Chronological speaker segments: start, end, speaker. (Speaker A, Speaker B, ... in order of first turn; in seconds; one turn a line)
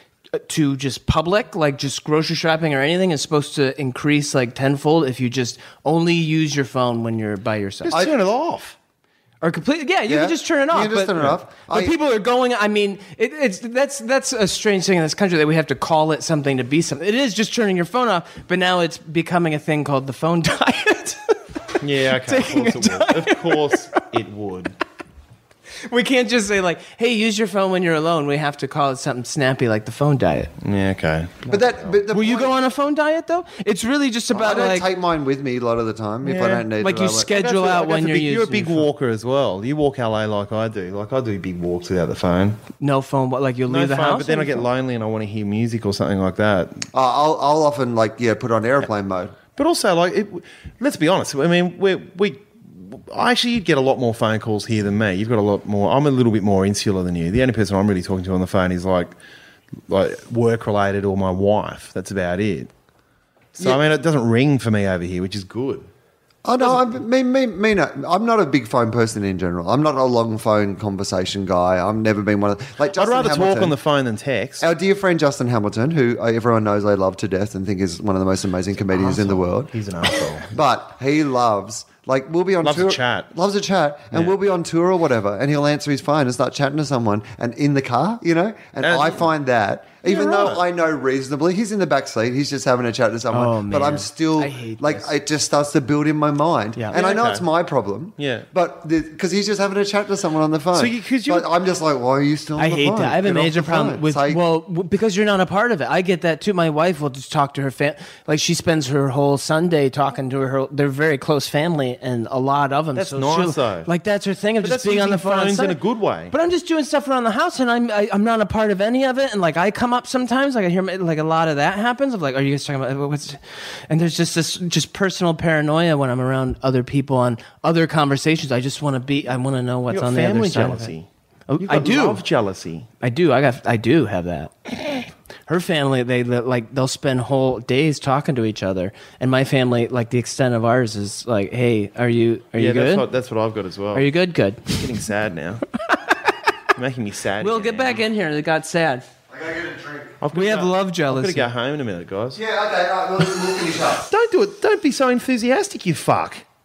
Speaker A: 0.3-8.0
Speaker B: 7.8-8.8
Speaker A: 9.4-21.4
Speaker C: 10.1-11.9
Speaker B: 21.8-24.7
Speaker A: 22.1-24.0
Speaker A: 25.8-30.5
Speaker B: 30.6-31.9
Speaker C: 31.5-32.5
Speaker A: 32.1-34.9
Speaker C: 34.3-37.3
Speaker B: 36.2-42.6
Speaker A: 36.8-38.9
Speaker A: 42.8-44.6
Speaker B: 43.7-46.9
Speaker C: 46.9-49.4
Speaker B: 49.5-59.1
Speaker B: 59.9-62.7
Speaker B: 63.5-65.9
Speaker C: 66.4-73.7
Speaker B: 72.9-74.7
Speaker C: 74.6-79.7
Speaker B: 78.9-80.5
Speaker C: 80.5-104.4
Speaker B: 82.6-83.3
Speaker B: 88.8-89.2
Speaker B: 90.0-90.6
Speaker A: 93.3-95.1
Speaker B: 96.9-97.4
Speaker B: 98.2-98.5
Speaker B: 100.7-101.5
Speaker A: 102.6-115.8
Speaker B: 113.0-113.9
Speaker B: 114.6-116.3
Speaker A: 116.3-130.9
Speaker B: 129.9-132.9
Speaker A: 131.5-132.2
Speaker A: 133.0-143.0
Speaker B: 142.6-144.1
Speaker A: 143.9-144.8
Speaker B: 144.7-145.6
Speaker A: 145.9-146.3
Speaker B: 146.7-148.0
Speaker A: 147.4-149.0
Speaker C: 149.3-150.2
Speaker B: 150.2-152.4
Speaker A: 150.3-151.5
Speaker C: 152.3-154.1
Speaker B: 154.0-156.4